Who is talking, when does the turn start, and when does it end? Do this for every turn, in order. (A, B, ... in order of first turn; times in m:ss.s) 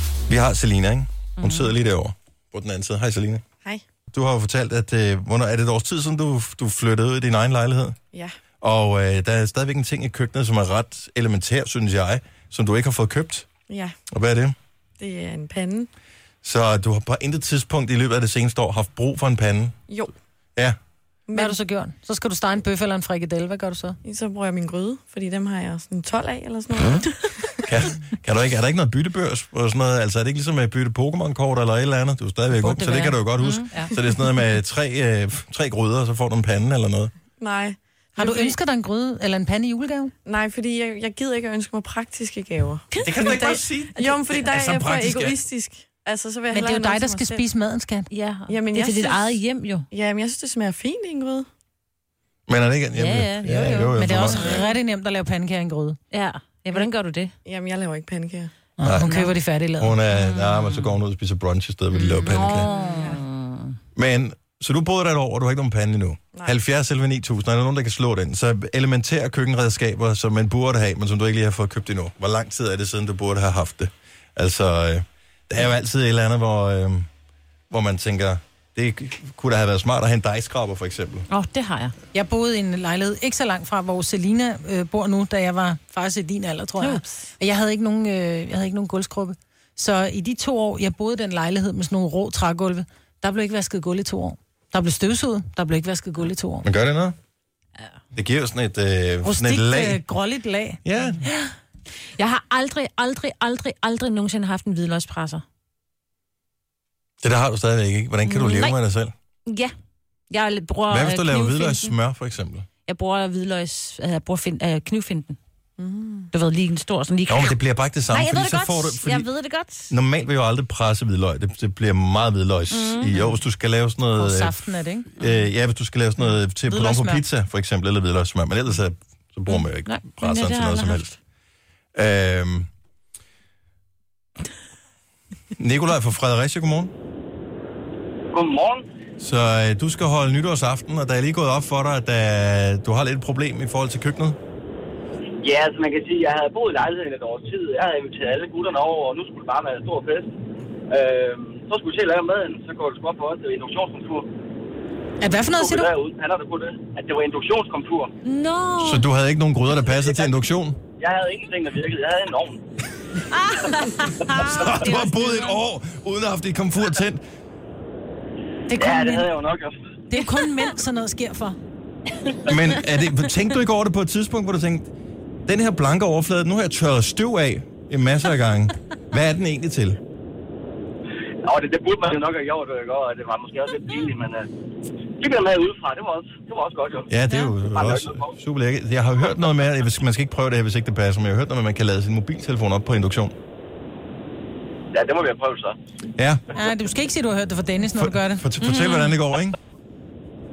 0:00.3-0:03.4 A
0:01.4-0:01.7 B
0:04.1-0:08.0 A
0:08.6-0:13.5 A
0:14.1-0:14.5 A
0:15.0-0:15.9 C
0:16.4-0:19.7 A
0:21.3-0:21.6 C
0:21.3-0:24.0 D
0:24.0-0:27.6 C
0:27.7-0:37.1 A
0:32.6-0:33.9 B
0:37.4-0:38.5 C
0:38.2-0:40.1 D
0:40.2-0:47.4 C
0:43.0-0:45.4 A
0:46.5-0:48.1 D
0:48.1-0:49.9 B
0:48.5-0:49.3 C
0:49.9-0:51.4 C
0:52.5-0:54.6 A
0:52.9-0:54.7 B
0:53.6-0:56.0 D
0:56.1-0:57.3 B
0:57.4-0:58.5 C
0:58.8-1:00.0 D
0:58.8-0:59.2 A
0:59.0-0:59.3 B
0:59.8-1:02.7 A
1:00.1-1:00.9 B
1:01.9-1:02.4 D
1:02.3-1:03.8 B
1:04.0-1:17.0 A
1:17.7-1:21.3 A
1:21.3-1:21.9 B
1:22.1-1:36.6 D
1:26.8-1:27.3 B
1:36.6-1:37.1 A
1:38.1-1:40.0 A
1:39.2-1:40.8 D
1:40.8-1:41.2 A
1:42.2-1:45.4 B
1:47.2-1:49.1 A
1:48.2-1:48.8 B
1:50.3-1:51.9 B
1:50.9-1:52.6 A
1:52.9-1:55.4 B
1:55.8-1:56.3 C
1:56.3-1:57.6 B
1:57.3-1:59.3 A
1:58.1-1:59.9 B
1:59.9-2:11.1 A
2:02.7-2:03.3 B
2:04.2-2:05.1 D
2:06.7-2:07.2 D
2:09.5-2:11.1 B
2:11.9-2:12.7 A
2:15.5-2:16.9 A
2:18.3-2:18.8 E
2:19.2-2:24.4 A
2:25.4-2:30.3 E
2:30.9-2:34.3 E
2:35.2-2:35.9 D
2:35.5-2:38.1 E
2:38.2-2:39.1 B
2:38.8-2:40.8 A
2:39.9-2:40.3 E
2:41.0-2:42.6 E
2:43.3-2:45.6 B
2:44.4-2:47.2 A
2:48.7-2:49.3 D
2:48.7-2:49.7 E
2:50.1-2:51.6 D
2:52.4-2:54.9 A
2:55.4-3:00.0 A
3:01.4-3:04.5 E
3:05.2-3:08.3 E
3:07.1-3:13.3 A
3:14.9-3:15.8 E
3:16.2-3:16.5 A
3:16.5-3:18.4 D
3:17.9-3:19.6 A
3:18.6-3:19.1 B